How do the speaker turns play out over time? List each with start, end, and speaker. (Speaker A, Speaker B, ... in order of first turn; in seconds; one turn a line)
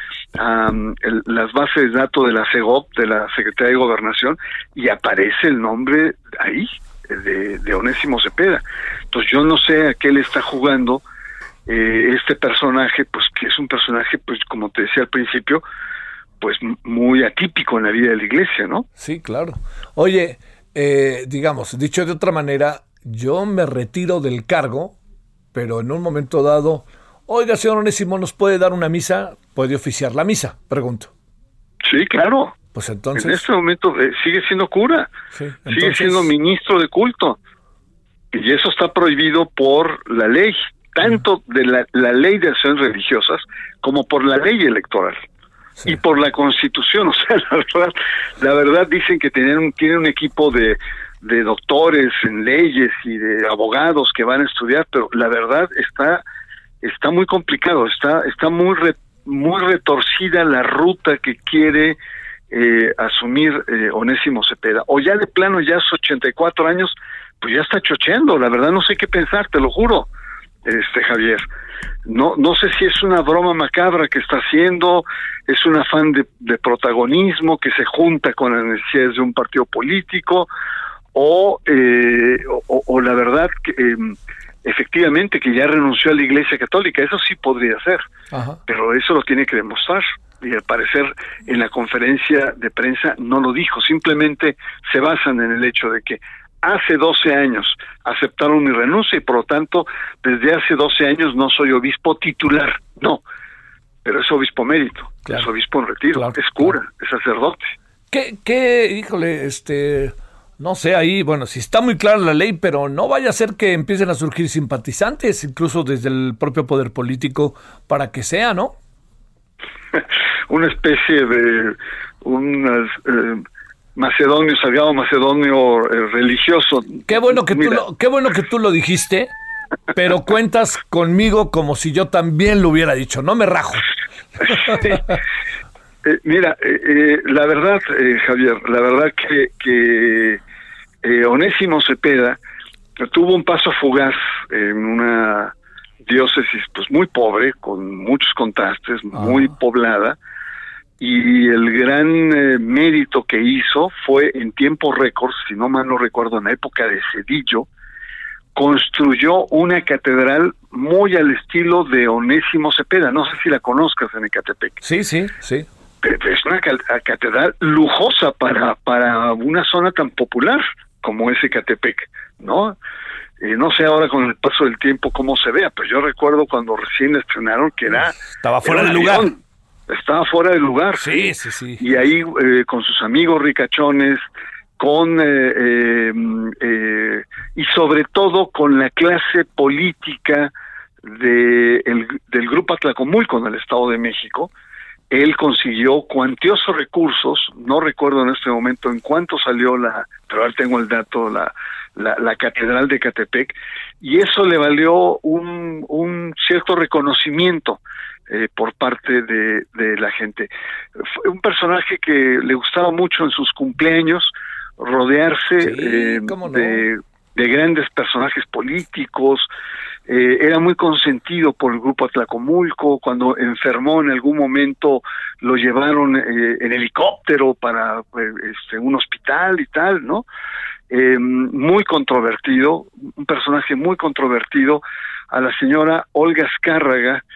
Speaker A: 0.3-11.0
Speaker A: 11.7-15.6
Speaker A: 16.4-18.9
Speaker B: 19.0-24.9
Speaker B: 25.5-31.1
Speaker A: 31.8-32.6
Speaker B: 32.7-33.5
Speaker A: 33.1-35.1
Speaker B: 35.3-36.3
Speaker A: 35.7-37.4
Speaker A: 38.3-45.2
Speaker A: 45.9-56.2
Speaker A: 56.8-62.0
Speaker A: 62.5-70.1
Speaker A: 70.6-71.5
Speaker A: 72.0-80.5
Speaker A: 81.1-88.0
Speaker B: 88.3-88.6
Speaker A: 88.7-103.2
Speaker A: 104.0-107.7
Speaker B: 106.1-106.8
Speaker B: 108.1-118.7
Speaker A: 119.9-123.4
Speaker A: 124.0-127.8
Speaker B: 127.0-129.3
Speaker B: 129.9-133.9
Speaker A: 134.6-135.1
Speaker A: 136.0-140.4
Speaker A: 141.0-142.4
Speaker A: 143.0-150.2
Speaker B: 149.1-149.5
Speaker A: 151.0-157.7
Speaker A: 158.5-164.8
Speaker B: 164.8-165.7
Speaker A: 166.0-172.8
Speaker A: 173.4-179.4
Speaker B: 178.2-179.3
Speaker A: 179.9-181.3
Speaker B: 180.9-181.9
Speaker A: 181.8-184.2
Speaker A: 184.8-190.5
Speaker A: 191.0-194.5
Speaker A: 195.1-219.5
Speaker B: 215.6-216.8
Speaker A: 220.1-230.2
Speaker A: 230.9-237.2